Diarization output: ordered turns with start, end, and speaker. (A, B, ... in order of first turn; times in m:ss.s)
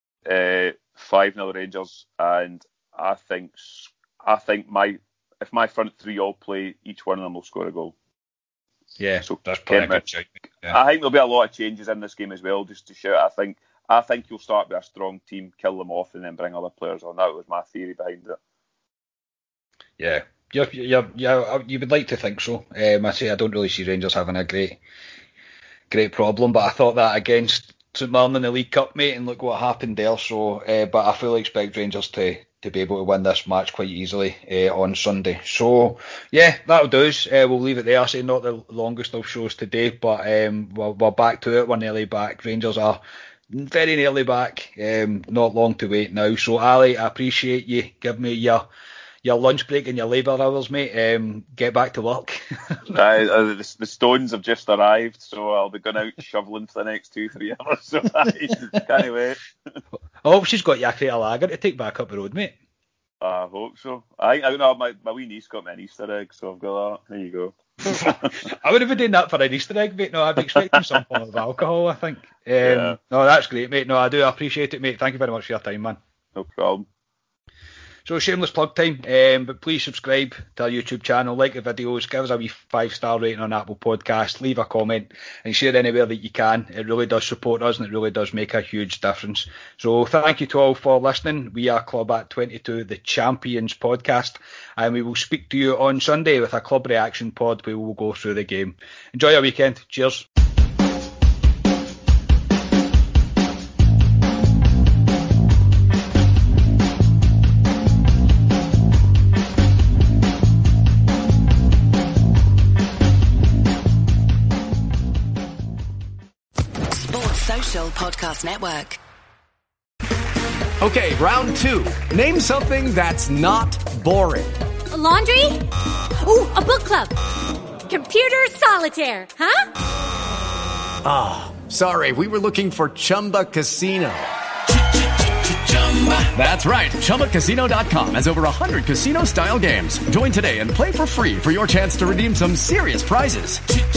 0:00.2-0:07.9 A
0:09.0-0:10.8 B
0:09.2-0:10.0 A
0:10.6-0:18.4 A
0:20.0-0:24.8 B
0:25.9-0:48.7 B
0:49.2-0:52.8 B
0:52.9-0:59.4 A
1:00.2-1:02.5 B
1:03.2-1:08.4 A
1:07.8-1:16.0 B
1:12.6-1:13.0 A
1:16.3-1:16.9 A
1:18.0-1:40.2 B
1:56.9-1:59.0 C
2:00.8-2:04.5 D
2:04.9-2:05.6 E
2:06.2-2:07.1 E
2:07.9-2:09.6 E
2:11.0-2:14.3 D
2:15.2-2:23.6 D